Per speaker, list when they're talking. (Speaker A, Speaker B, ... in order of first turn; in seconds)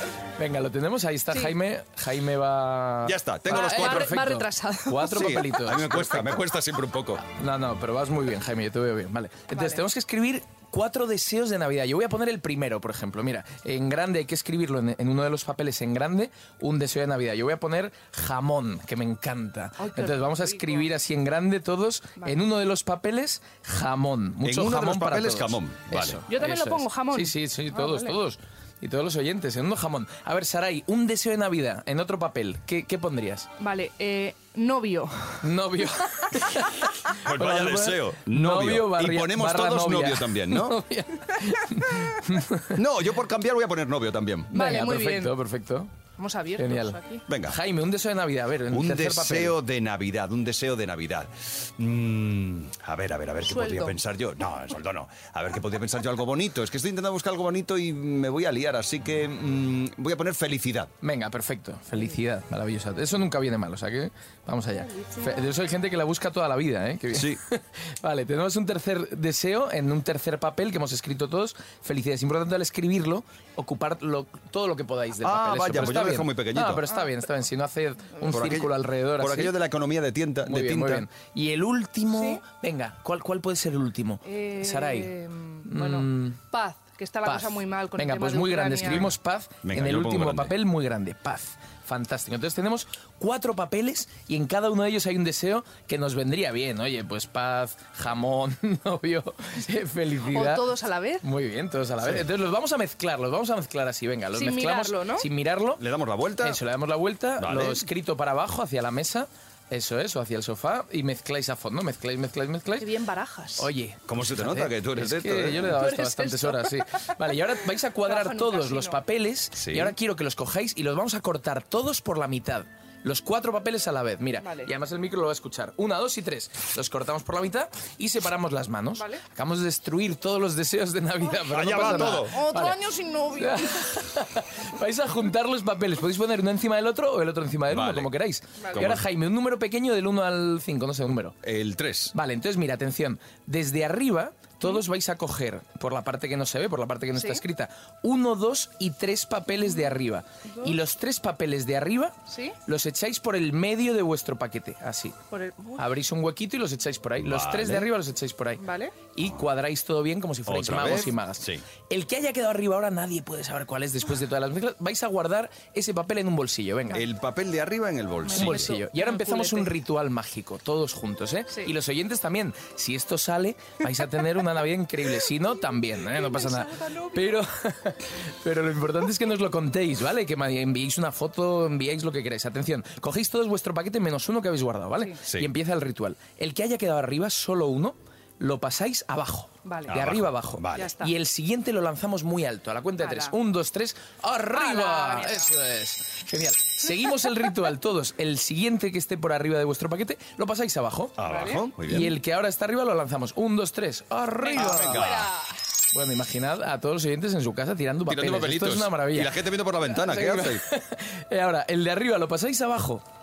Speaker A: 0.4-6.4, 7.2-33.5, 35.4-42.8, 44.5-45.9, 46.6-49.6, 61.0-79.6, 80.4-85.1, 85.7-86.4, 87.2-100.7, 101.2-105.8, 106.4-112.9, 113.6-141.3, 142.1-155.2, 155.8-167.1, 168.3-201.2, 201.8-205.2, 205.9-213.0
Speaker B: 3.0-4.2, 5.1-7.2, 24.4-26.2, 37.2-40.8, 42.7-44.5, 47.3-47.6, 48.7-60.9, 67.1-67.4, 75.2-76.9, 78.3-81.0, 89.6-90.5, 102.0-102.2, 105.8-106.6, 107.4-107.8, 114.1-115.7, 119.6-119.9, 131.5-132.3, 137.7-138.1, 138.7-139.0, 141.4-142.1, 157.2-157.9, 160.5-161.6, 166.9-168.8, 185.2-185.5, 189.9-190.9, 201.2-202.1, 204.5-205.3, 208.1-210.6
Speaker C: 3.5-5.6, 9.5-9.8, 19.8-20.9, 26.3-28.1, 33.6-35.5, 44.5-45.3, 46.2-47.2, 53.4-54.0, 64.9-65.4, 82.1-82.4, 84.2-89.1, 100.3-101.2, 104.3-105.2, 112.8-113.7, 115.7-116.8, 118.0-119.0, 124.4-124.7, 128.9-129.2, 131.8-133.9, 138.6-138.8, 147.1-147.4, 152.3-152.6, 155.3-155.8, 158.6-158.9, 168.3-169.7, 176.1-177.4, 189.6-189.9, 190.7-191.1, 193.0-193.3, 194.5-195.5, 201.2-201.6, 204.4-205.4